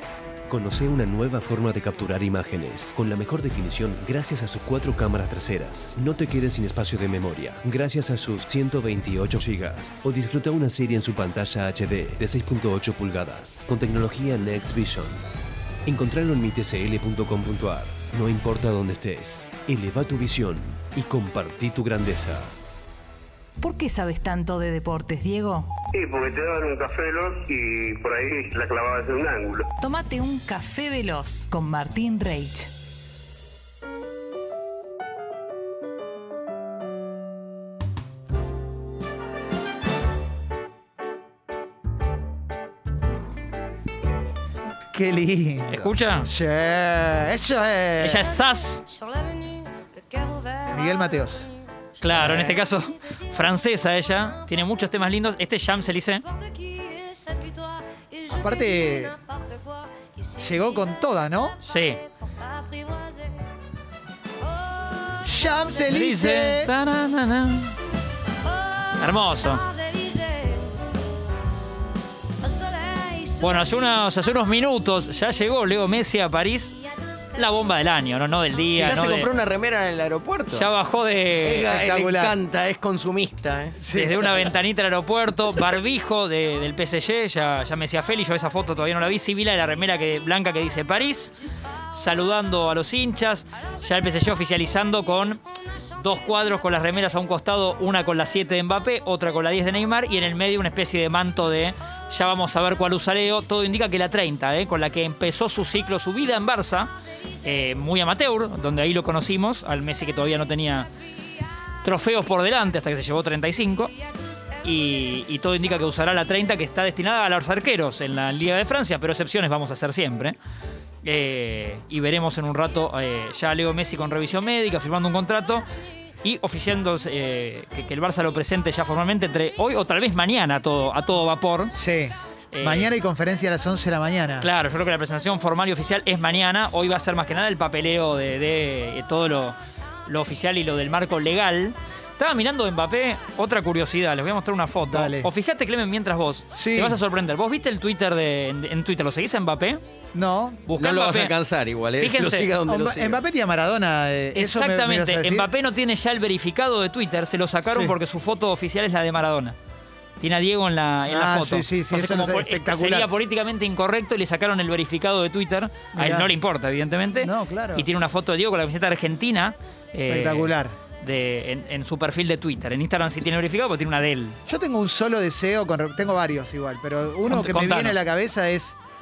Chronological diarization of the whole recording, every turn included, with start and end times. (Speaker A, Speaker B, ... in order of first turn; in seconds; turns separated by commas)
Speaker A: 0.5-15.2, Speaker A: 15.9-22.6, Speaker B: 23.6-25.7, Speaker C: 25.9-29.7, Speaker B: 29.8-32.7, Speaker D: 44.9-48.3, Speaker E: 45.7-46.3, Speaker E: 48.0-48.9, Speaker D: 50.6-51.5, Speaker E: 52.0-56.2, Speaker D: 52.1-52.6, Speaker D: 58.3-59.2, Speaker D: 60.4-61.6, Speaker E: 61.6-62.1, Speaker D: 65.2-66.7, Speaker E: 65.9-67.8, Speaker E: 68.9-69.7, Speaker E: 73.3-76.8, Speaker E: 77.3-79.3, Speaker F: 78.6-80.7, Speaker E: 80.5-81.7, Speaker F: 81.4-84.4, Speaker D: 81.7-82.3, Speaker D: 83.8-84.5, Speaker E: 83.9-91.3, Speaker E: 91.9-95.4, Speaker E: 96.0-110.9, Speaker E: 111.8-114.0, Speaker E: 114.6-120.4, Speaker E: 121.0-125.7, Speaker E: 126.2-131.7, Speaker D: 131.7-134.5, Speaker E: 132.5-132.9, Speaker E: 134.4-149.8, Speaker D: 144.9-145.3, Speaker D: 146.5-147.0, Speaker D: 150.1-150.6, Speaker E: 150.7-151.3, Speaker F: 150.8-153.2, Speaker E: 152.0-152.5, Speaker D: 152.7-155.5, Speaker E: 154.3-159.6, Speaker D: 157.7-157.9, Speaker E: 160.2-174.4, Speaker D: 161.1-163.1, Speaker D: 165.9-166.3, Speaker D: 167.2-167.9, Speaker D: 170.1-170.8, Speaker D: 174.5-178.8, Speaker E: 177.3-178.0